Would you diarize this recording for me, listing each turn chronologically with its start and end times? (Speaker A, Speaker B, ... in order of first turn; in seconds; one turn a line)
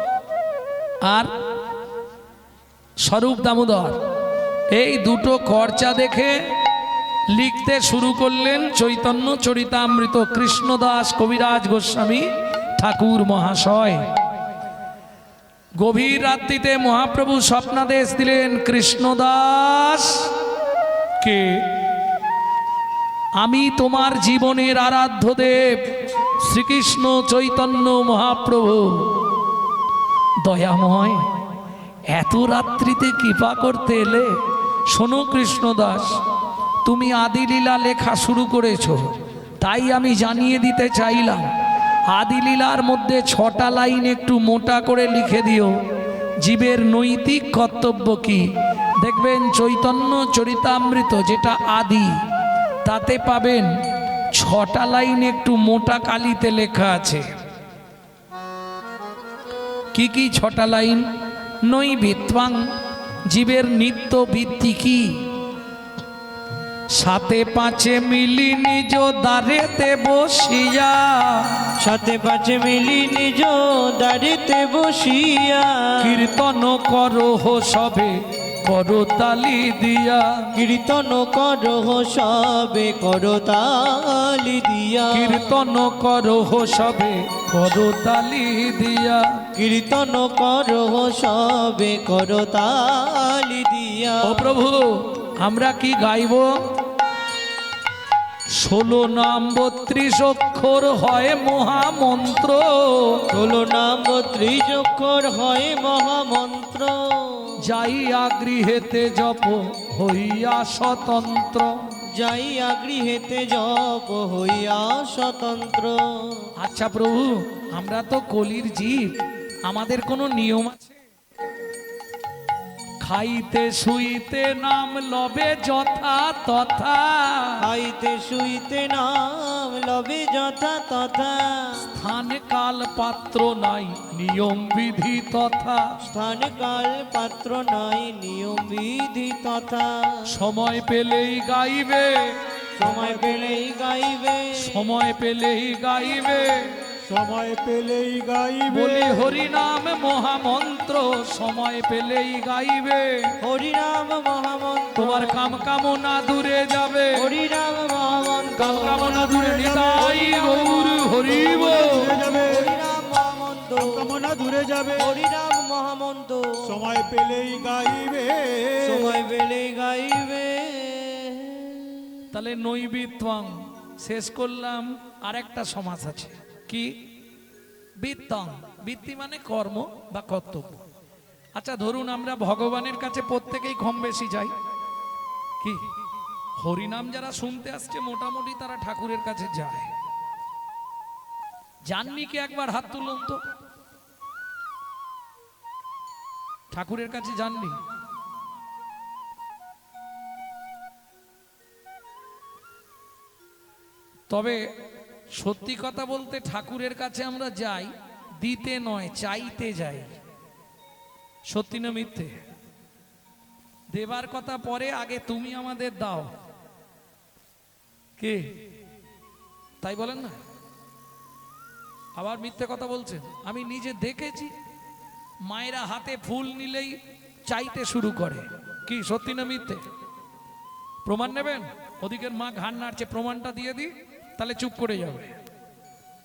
Speaker A: 1.0-1.3
Speaker A: 3.0-4.0
Speaker A: 4.7-6.4
Speaker A: 7.3-14.0
Speaker A: 15.8-20.3
Speaker A: 21.2-21.7
Speaker A: 23.4-25.8
Speaker A: 26.4-29.1
Speaker A: 30.4-31.2
Speaker A: 32.1-34.3
Speaker A: 34.9-36.1
Speaker A: 36.8-41.5
Speaker A: 42.1-45.7
Speaker A: 46.4-48.5
Speaker A: 49.0-52.1
Speaker A: 52.9-53.7
Speaker A: 54.3-57.2
Speaker A: 59.9-61.0
Speaker A: 61.7-62.6
Speaker A: 63.3-65.1
Speaker A: 67.0-71.7
Speaker B: 71.8-76.4
Speaker A: 76.0-80.5
Speaker B: 80.5-85.5
Speaker A: 85.1-89.2
Speaker B: 89.5-94.5
Speaker A: 94.2-96.5
Speaker A: 98.6-103.2
Speaker B: 103.3-107.6
Speaker A: 107.6-111.8
Speaker B: 112.2-116.5
Speaker A: 116.6-119.1
Speaker A: 119.7-120.9
Speaker A: 123.0-127.6
Speaker B: 127.6-131.8
Speaker A: 131.8-135.9
Speaker B: 136.0-140.3
Speaker A: 140.3-142.4
Speaker B: 142.8-144.8
Speaker C: 142.8-143.2
Speaker A: 144.6-146.7
Speaker C: 147.0-149.4
Speaker A: 148.7-153.3
Speaker B: 153.4-155.4
Speaker A: 154.9-157.3
Speaker B: 157.1-159.2
Speaker A: 158.6-162.1
Speaker C: 158.9-160.7
Speaker B: 160.0-164.1
Speaker C: 161.3-162.7
Speaker C: 163.8-165.2
Speaker B: 165.0-166.7
Speaker C: 166.6-169.2
Speaker B: 168.8-172.2
Speaker A: 172.3-176.9
Speaker A: 178.0-180.8
Speaker A: 181.6-184.5
Speaker A: 186.6-189.9
Speaker A: 191.8-193.4
Speaker A: 196.7-197.8
Speaker A: 204.3-204.6
Speaker A: 205.3-210.1
Speaker A: 211.5-212.4
Speaker A: 213.9-216.3
Speaker A: 218.2-218.5
Speaker A: 219.8-220.4
Speaker A: 222.2-224.5
Speaker A: 225.4-229.8
Speaker A: 231.0-235.4